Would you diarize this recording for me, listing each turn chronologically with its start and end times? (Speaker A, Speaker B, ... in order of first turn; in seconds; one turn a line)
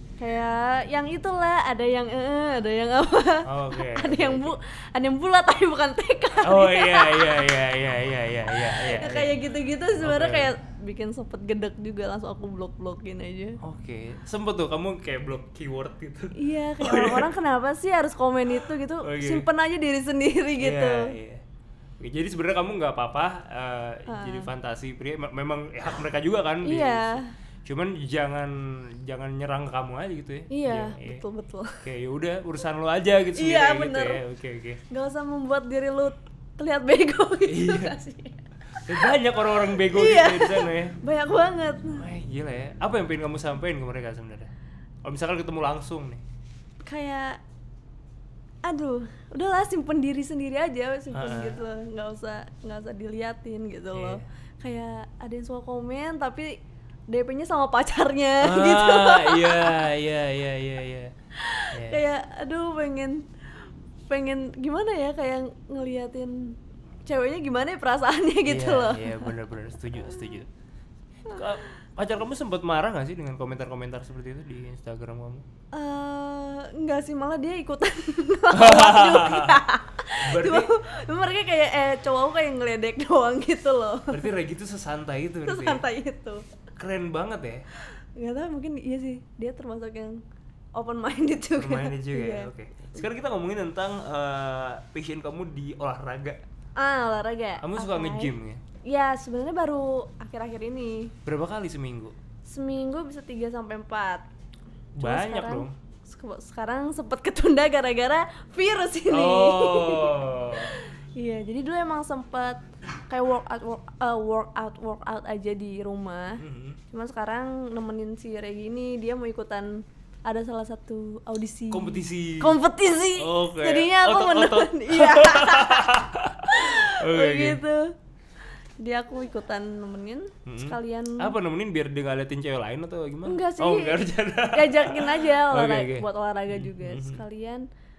Speaker A: 0.2-7.5
Speaker B: 3.4-4.5
Speaker B: 6.4-9.4
Speaker A: 8.7-13.6
Speaker B: 10.0-10.6
Speaker B: 13.6-17.3
Speaker A: 16.3-21.1
Speaker B: 18.5-19.5
Speaker B: 20.6-21.4
Speaker B: 22.0-31.2
Speaker A: 24.1-24.5
Speaker A: 26.6-27.3
Speaker A: 30.5-31.8
Speaker B: 31.8-34.8
Speaker A: 33.4-34.2
Speaker A: 34.9-39.1
Speaker B: 37.5-38.0
Speaker B: 38.8-41.0
Speaker A: 39.7-42.0
Speaker B: 42.0-44.5
Speaker B: 45.0-46.2
Speaker A: 46.8-47.4
Speaker A: 48.6-56.6
Speaker B: 51.1-51.6
Speaker B: 53.9-54.2
Speaker A: 57.1-59.8
Speaker B: 58.4-61.1
Speaker A: 61.4-63.2
Speaker B: 61.7-62.0
Speaker A: 64.1-69.3
Speaker B: 68.5-70.5
Speaker B: 71.3-75.5
Speaker A: 75.7-84.2
Speaker B: 78.5-79.6
Speaker B: 80.2-80.7
Speaker B: 84.1-85.8
Speaker A: 85.4-86.4
Speaker B: 86.8-87.6
Speaker A: 88.2-90.2
Speaker A: 90.7-92.5
Speaker B: 91.5-96.4
Speaker A: 96.8-98.3
Speaker B: 97.6-98.6
Speaker A: 98.8-101.1
Speaker B: 101.2-102.1
Speaker A: 102.4-104.2
Speaker B: 104.9-105.7
Speaker A: 105.0-127.9
Speaker B: 109.1-110.7
Speaker B: 116.4-116.8
Speaker B: 121.7-122.5
Speaker B: 123.2-127.6
Speaker A: 128.8-131.3
Speaker B: 130.4-137.2
Speaker A: 133.2-137.7